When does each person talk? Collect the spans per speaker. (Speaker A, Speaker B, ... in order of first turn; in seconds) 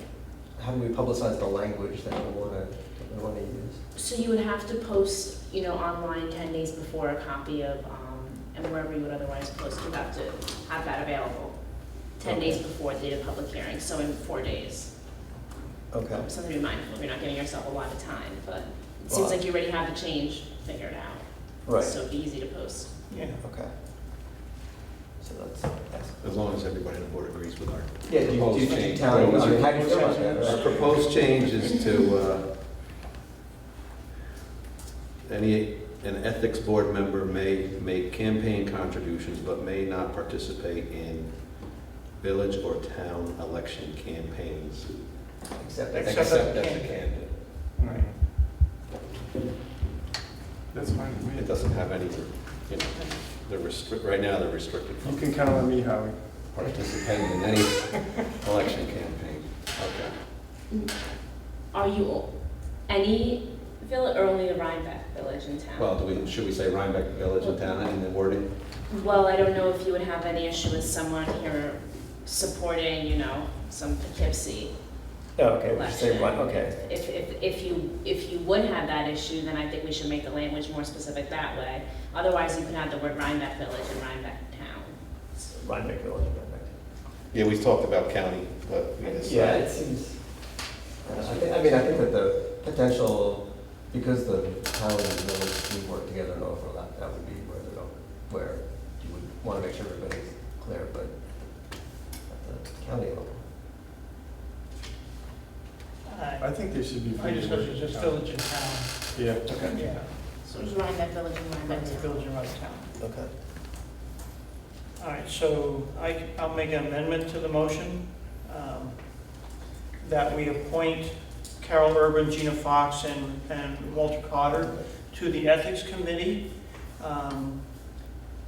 Speaker A: 0.6-3.8, 12.2-12.6, 15.9-16.3, 19.1-19.4, 21.6-21.9, 23.4-23.7, 25.2-26.2, 28.1-31.0, 45.5-46.6, 75.3-76.7, 85.3-86.8, 89.1-90.2, 91.0-101.1, 102.3-103.4, 109.5-109.8, 113.0-113.3
Speaker B: 4.0-11.6, 12.2-14.9, 16.2-22.9, 61.7-62.3, 62.9-65.9, 68.9-74.7, 75.6-85.0, 109.6-112.3
Speaker C: 23.1-23.4, 28.7-30.9, 45.9-46.9, 106.0-106.6, 107.1-109.1, 109.7-110.1, 111.6-112.8, 115.0-119.0, 120.0-126.4, 127.0-127.6
Speaker D: 26.2-32.5, 35.2-41.6, 42.2-44.9, 46.0-47.3, 51.3-55.3, 56.5-60.1, 65.8-68.5, 87.3-89.7, 91.2-92.0
Speaker E: 47.8-48.1, 50.7-51.5, 55.0-56.2, 106.4-108.2, 109.1-109.5